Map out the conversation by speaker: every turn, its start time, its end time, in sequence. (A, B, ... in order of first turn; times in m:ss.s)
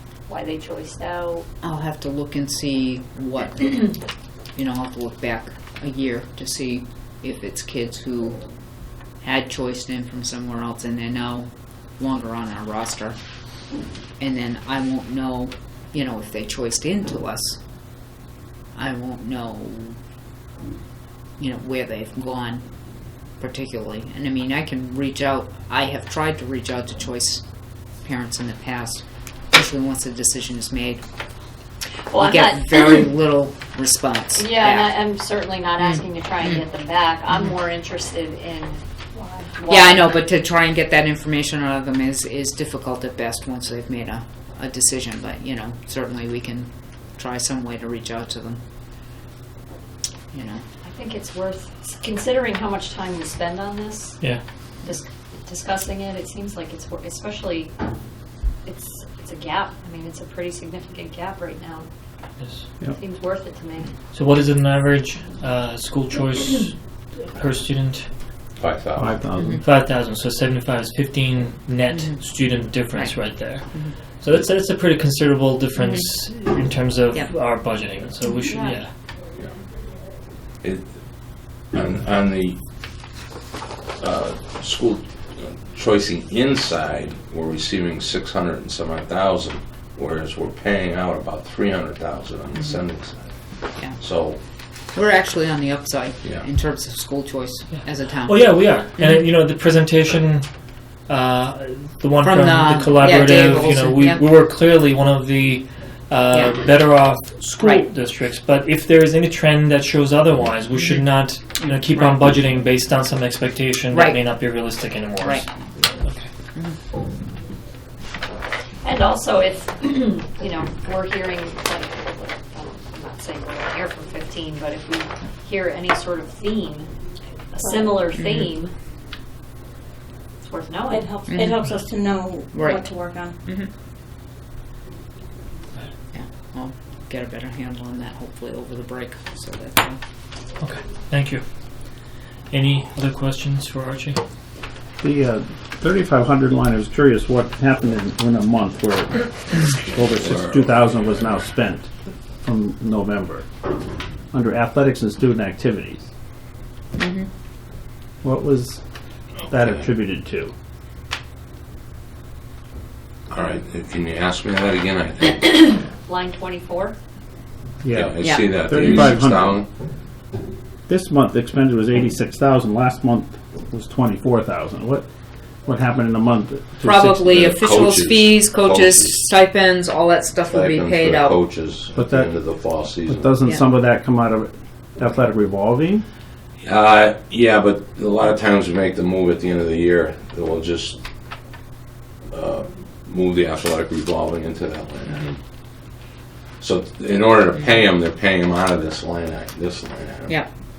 0:00.3-0:01.4 A
0:01.6-0:04.0 B
0:04.6-0:08.4 B
0:09.2-0:13.2 B
0:14.2-0:17.6 B
0:18.7-0:20.0 B
0:21.4-0:22.6 B
0:23.4-0:27.4 B
0:28.0-0:31.0 B
0:32.1-0:33.1 A
0:32.2-0:35.0 B
0:34.3-0:40.2 A
0:39.7-0:48.6 B
0:50.3-0:50.6 B
0:50.8-0:54.2 A
0:54.8-0:57.7 A
0:58.6-1:01.9 A
1:02.8-1:03.9 A
1:04.1-1:06.7 C
1:07.3-1:08.0 C
1:08.6-1:09.2 D
1:09.0-1:09.5 E
1:09.6-1:18.9 C
1:11.9-1:12.2 B
1:12.9-1:13.2 B
1:18.5-1:18.8 A
1:20.6-1:20.9 D
1:21.7-1:22.6 D
1:24.0-1:33.2 D
1:34.0-1:34.4 D
1:34.9-1:38.6 B
1:37.7-1:40.4 C
1:41.1-1:55.4 C
1:42.2-1:44.3 B
1:46.3-1:46.6 B
1:47.6-1:47.8 B
1:53.9-1:54.2 B
1:56.0-1:56.3 C
1:58.8-2:06.9 A
2:07.5-2:08.7 A
2:07.6-2:07.9 F
2:08.1-2:08.4 B
2:10.4-2:11.1 A
2:10.9-2:13.4 F
2:11.3-2:11.6 B
2:12.5-2:12.8 B
2:16.1-2:20.0 B
2:20.6-2:21.4 C
2:22.5-2:24.2 C
2:25.0-2:29.2 E
2:30.0-2:31.9 E
2:30.2-2:30.7 D
2:32.4-2:33.4 E
2:34.3-2:36.1 E
2:37.0-2:37.3 B
2:38.2-2:38.8 E
2:39.5-2:40.5 E
2:39.6-2:39.8 D
2:43.3-2:45.7 D
2:46.0-2:47.0 A
2:47.8-2:49.6 E
2:47.9-2:49.6 D
2:48.2-2:48.5 B
2:50.9-2:55.0 E
2:55.6-2:57.4 E
2:56.8-3:01.4 B
2:57.3-2:59.3 D
3:00.5-3:03.4 D
3:02.0-3:02.3 E
3:03.1-3:06.0 E
3:06.6-3:11.0 D
3:12.3-3:15.4 D
3:16.6-3:20.4 D